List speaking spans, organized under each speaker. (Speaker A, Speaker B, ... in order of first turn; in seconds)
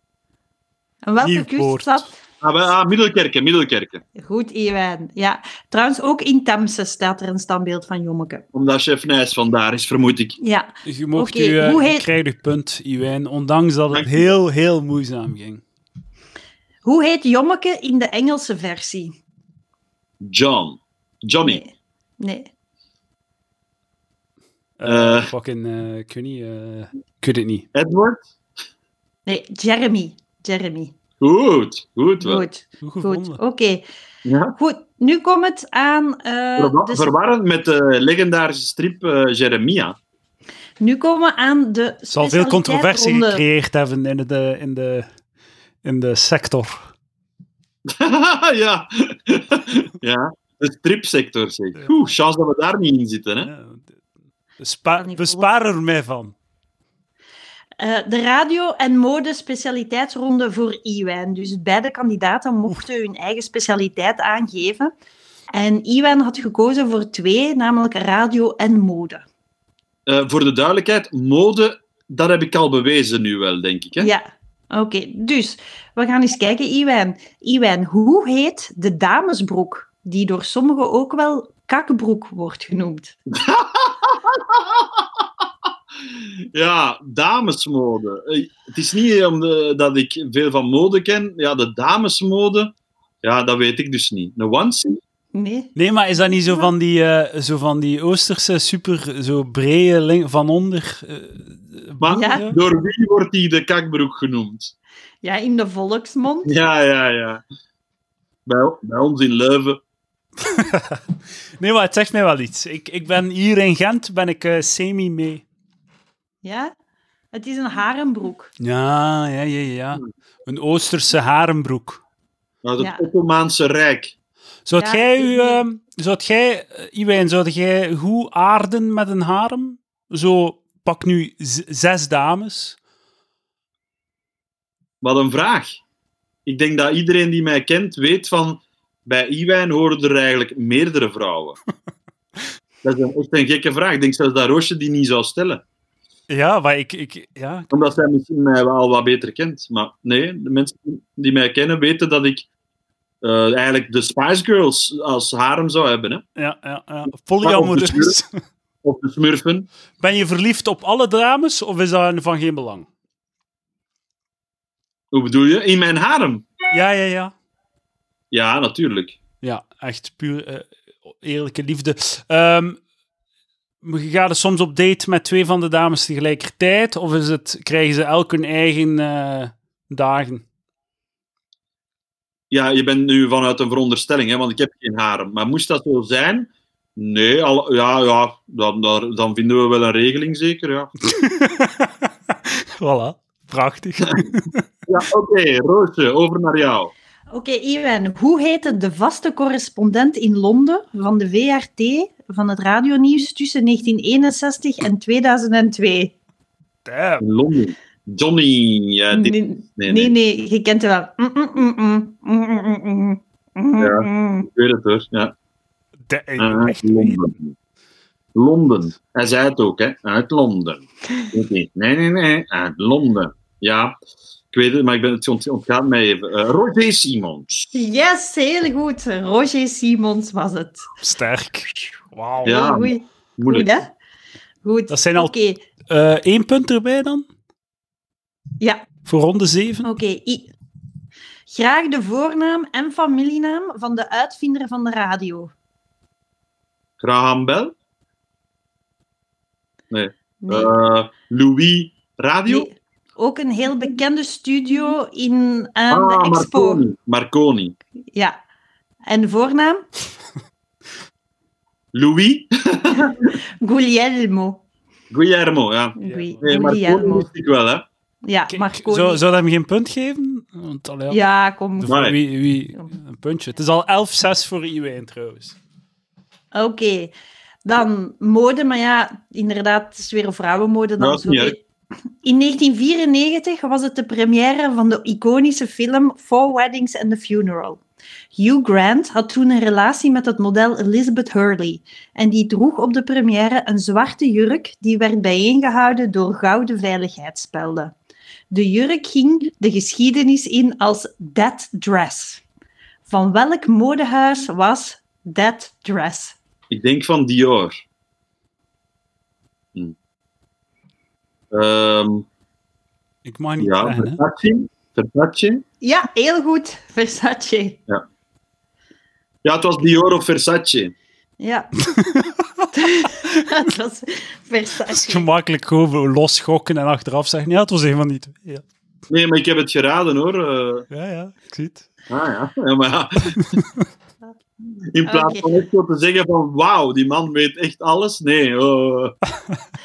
Speaker A: 1.0-2.1, 4.2-8.4, 10.4-12.1, 16.8-19.1, 21.4-22.5, 29.3-30.9, 32.2-33.8, 34.6-37.1, 40.8-43.4, 55.0-55.5, 57.8-64.9, 65.5-69.2, 74.0-83.2, 95.3-96.7, 102.1-102.5, 105.2-106.5, 116.4-116.7, 117.3-118.5, 122.8-123.1, 124.8-125.6, 197.3-206.1, 209.1-214.5, 227.7-230.9, 231.7-233.9, 234.6-235.6, 238.6-238.9, 239.8-240.5, 241.5-245.5, 250.4-250.7, 252.5-256.8, 259.1-259.9, 263.0-264.6, 266.0-267.3, 268.2-269.2, 271.1-272.1, 276.5-277.1, 277.6-281.6, 282.2-287.8, 288.4-297.9, 298.5-302.4, 303.1-306.4, 315.8-317.8, 321.4-321.7, 322.7-325.3, 335.1-335.5
Speaker B: 1.2-2.1, 10.8-15.6, 24.8-27.7, 32.8-33.4, 42.1-45.1, 45.8-46.9, 53.4-53.9, 54.6-56.3, 95.8-102.6, 110.4-111.0, 111.6-115.4, 118.6-122.0, 124.7-132.8, 146.3-147.7, 156.4-158.3, 160.0-162.9, 166.7-167.3, 169.4-172.8, 173.8-180.4, 191.1-194.6, 206.9-207.2, 216.1-217.2, 231.0-232.6, 234.9-235.3, 235.9-237.3, 239.1-239.9, 266.0-266.4, 268.5-271.2, 271.8-275.6, 313.2-314.2, 321.9-322.7, 324.9-328.6, 330.9-331.9
Speaker C: 2.4-4.0, 8.5-10.4, 13.9-14.2, 20.2-21.6, 24.9-25.3, 27.7-28.2, 31.2-32.4, 34.2-34.6, 36.6-40.0, 47.9-53.5, 70.1-74.1, 83.3-85.2, 86.1-95.0, 102.0-104.7, 106.5-107.4, 108.5-109.8, 122.6-124.1, 135.0-135.8, 136.5-141.6, 142.8-145.6, 147.7-152.5, 153.2-156.2, 157.4-158.2, 158.8-159.7, 165.1-166.5, 168.3-169.2, 182.5-190.9, 194.9-196.9, 207.2-210.1, 213.8-215.3, 216.4-217.6, 218.3-224.0, 224.5-227.7, 232.4-233.7, 247.0-247.7, 249.9-252.7, 255.9-257.8, 261.9-263.4, 265.1-267.9, 271.9-272.2, 281.0-281.6, 306.7-307.8, 311.5-312.3, 313.6-315.6, 319.4-320.9, 329.1-330.9, 332.1-333.5, 334.9-339.1